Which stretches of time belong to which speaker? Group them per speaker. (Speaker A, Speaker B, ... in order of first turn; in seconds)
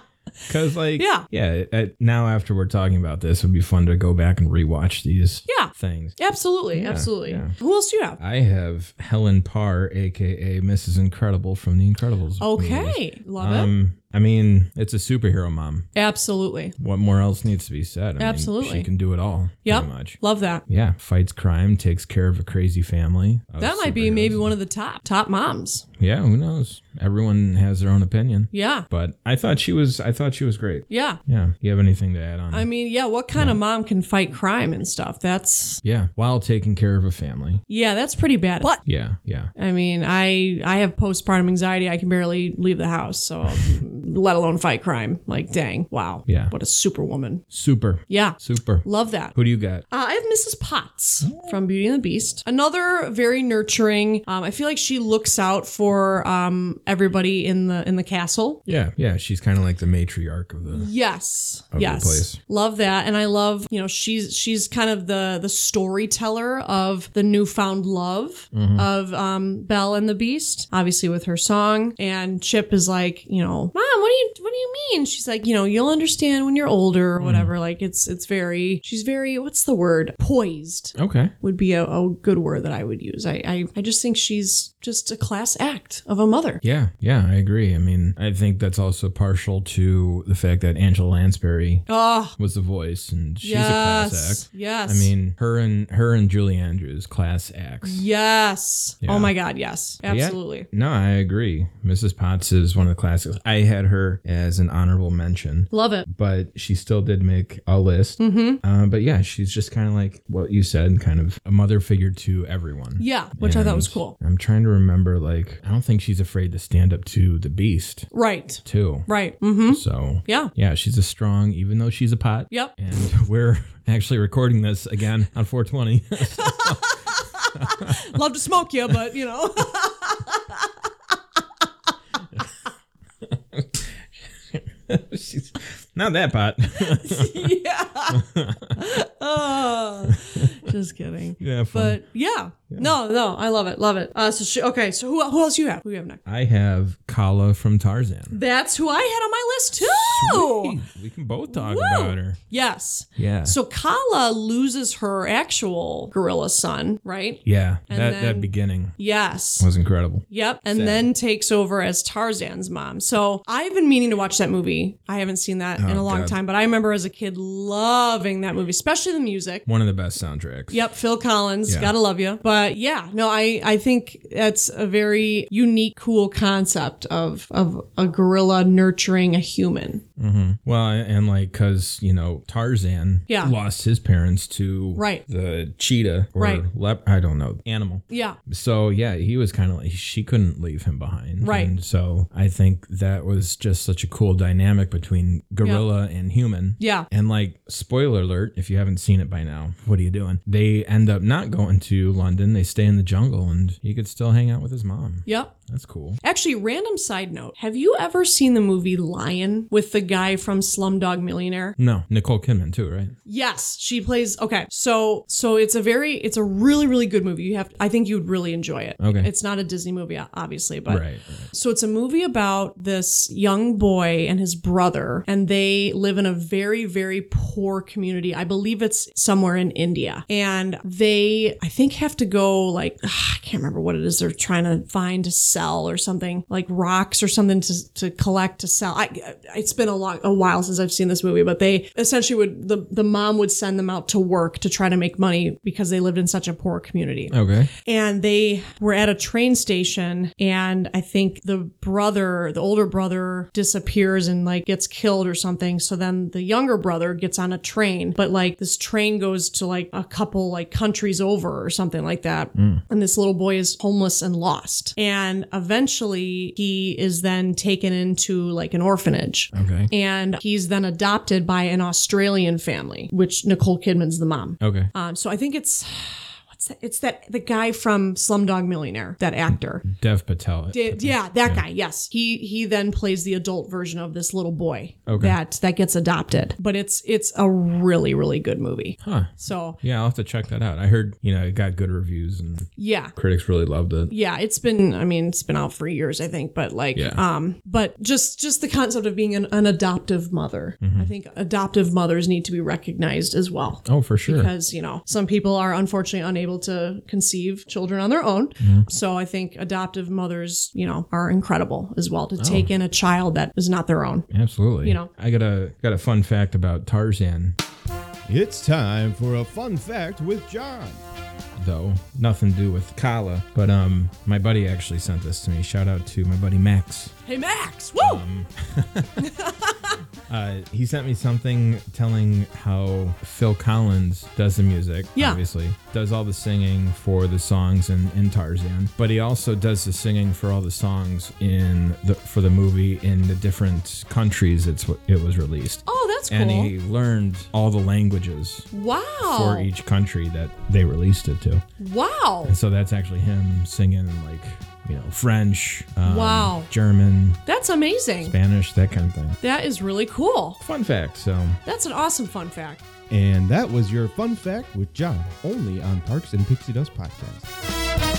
Speaker A: 0.5-6.2, 6.7-7.5, 8.2-15.9, 16.8-24.5, 26.0-32.7, 35.8-37.6, 38.8-39.5, 46.3-46.5, 47.5-49.9, 51.2-51.5, 58.7-60.9, 61.7-62.4, 68.5-68.9, 77.2-77.5, 81.0-81.3, 86.6-98.0, 99.0-99.3, 100.0-118.1, 118.7-119.1, 119.7-126.9, 127.5-128.0, 133.2-133.9, 134.5-137.5, 138.1-138.8, 140.1-140.4, 141.4-142.0, 146.3-148.4, 149.8-152.4, 153.2-153.6, 157.4-159.0, 159.6-161.1, 165.8-166.4, 169.7-170.9, 171.7-171.9, 180.2-206.2, 211.8-213.1, 219.0-219.3, 220.9-221.5, 247.3-247.7, 262.6-262.8, 269.5-269.9, 274.6-274.9, 279.8-281.6, 285.1-285.4, 289.0-294.1, 296.9-297.2, 300.8-301.1, 303.9-304.5, 308.6-308.9, 312.4-312.7, 314.3-317.6, 321.6-327.1, 328.0-329.3, 330.3-348.7, 349.2-351.6, 352.4-357.4, 358.2-359.4, 360.6-361.6
Speaker B: 1.0-1.3, 5.5-8.2, 12.4-13.7, 15.9-16.7, 18.2-18.9, 19.6-20.6, 23.6-25.9, 28.5-28.9, 30.9-31.2, 32.5-35.8, 37.7-38.8, 39.6-47.5, 48.1-49.4, 49.9-58.6, 60.7-86.6, 91.9-92.4, 93.4-95.1, 97.8-100.7, 105.7-106.1, 108.2-108.6, 113.0-114.2, 118.1-120.5, 126.4-130.9, 136.8-146.2, 148.3-150.8, 151.5-159.7, 160.3-169.7, 170.7-180.0, 183.3-183.6, 185.0-185.2, 186.4-186.7, 188.1-188.4, 191.4-191.8, 196.8-197.1, 205.3-205.5, 206.2-211.8, 213.3-279.9, 280.7-289.8, 292.8-293.1, 294.1-314.3, 314.8-315.1, 327.3-328.2, 329.2-330.0, 335.2-335.4, 345.9-346.7, 348.7-349.7, 351.8-352.6, 356.0-356.7, 357.5-358.3, 359.4-360.6, 361.6-362.8
Speaker C: 318.3-321.0, 363.1-367.5